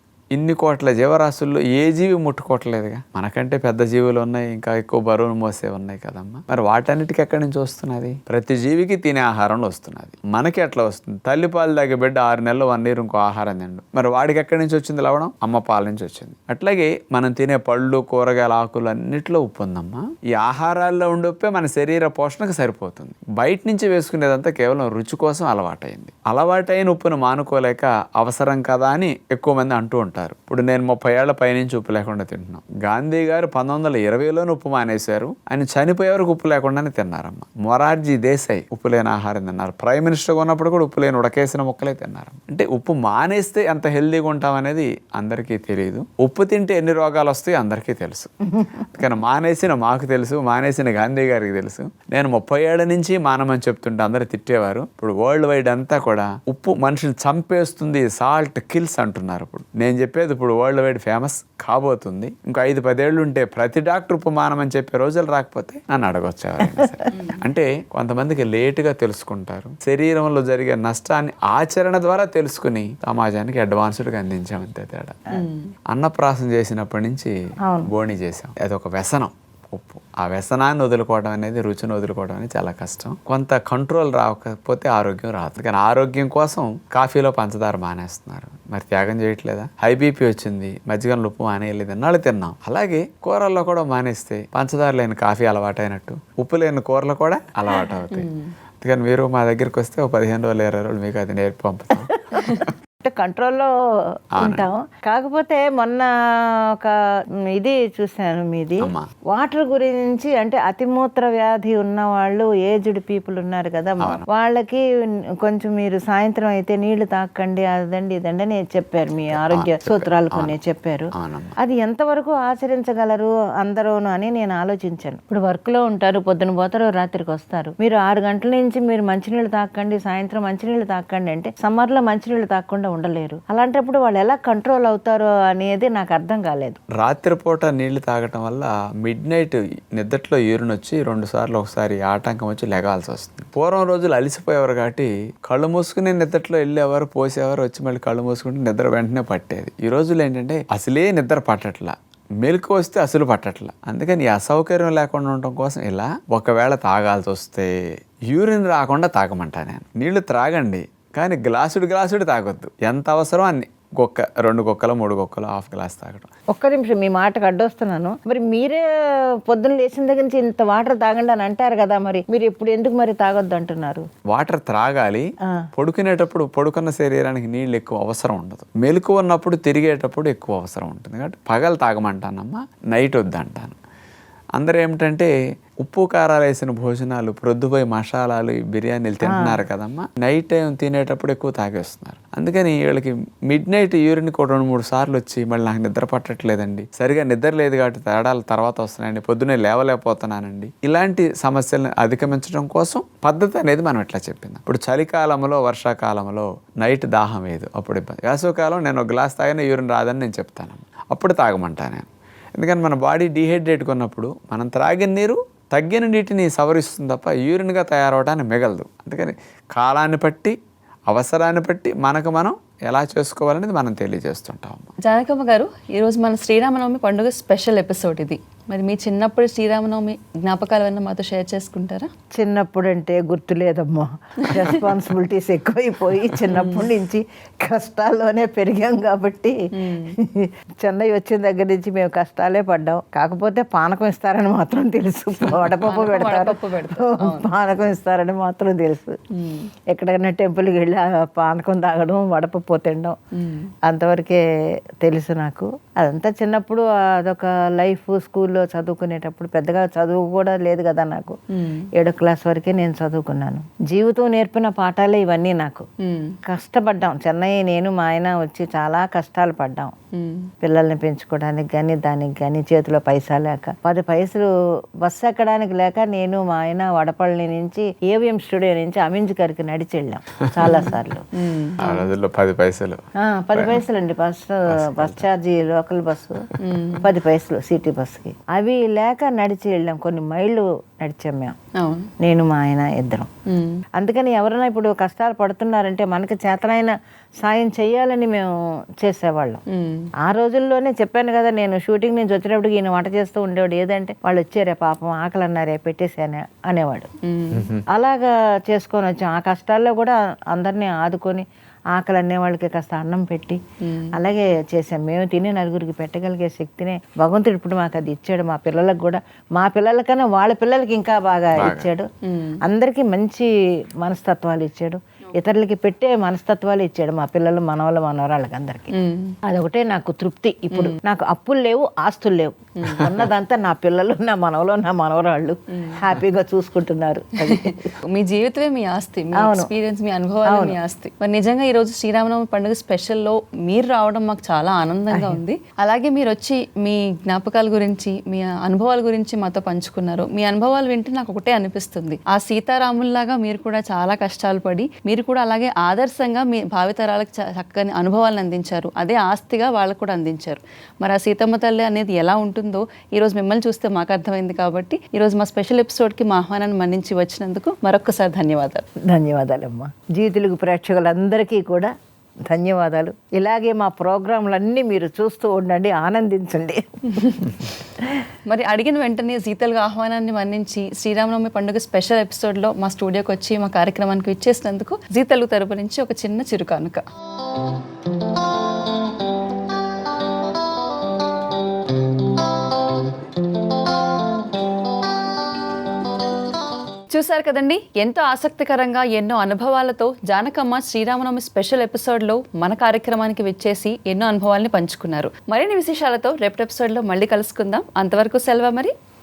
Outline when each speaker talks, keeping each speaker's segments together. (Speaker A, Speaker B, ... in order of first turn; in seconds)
Speaker A: 0.3-48.4, 48.9-75.2, 75.9-77.3, 77.8-98.3, 98.8-102.5, 104.4-104.7, 108.8-109.0, 119.3-120.5, 121.1-121.5, 136.9-157.7, 158.3-166.3, 174.3-183.8, 184.6-220.5, 221.1-224.9, 281.8-283.0, 283.5-283.8, 284.7-285.3, 307.6-307.8, 321.6-321.9
Speaker B: 67.1-67.4, 75.3-75.7, 98.1-98.5, 225.0-232.1, 236.5-236.8, 239.8-240.1, 245.8-247.5, 249.4-249.7, 253.3-253.7, 261.5-261.9, 266.0-266.3, 270.1-270.5, 281.3-282.1, 286.6-287.1, 291.8-292.1, 293.5-293.8, 299.7-300.1, 307.2-307.7, 313.8-314.2, 322.3-322.6, 328.9-329.3, 330.7-331.0, 332.8-333.1, 337.5-368.8, 377.1-377.4, 378.5-387.0, 397.1-408.9
Speaker C: 102.3-103.7, 104.4-106.1, 107.5-114.8, 115.4-136.8, 166.5-168.8, 169.5-174.0, 189.2-189.6, 232.4-239.5, 240.2-249.2, 249.9-253.1, 253.9-254.4, 255.0-261.4, 261.9-265.8, 266.4-269.9, 270.6-274.5, 275.0-281.2, 283.2-286.4, 287.0-291.5, 292.2-293.3, 294.0-296.9, 297.4-298.5, 299.0-299.6, 300.2-307.1, 307.9-313.6, 314.1-322.1, 322.6-323.5, 324.0-328.9, 329.5-337.9, 339.4-339.7, 340.5-340.8, 345.1-345.4, 369.1-371.9, 372.5-377.4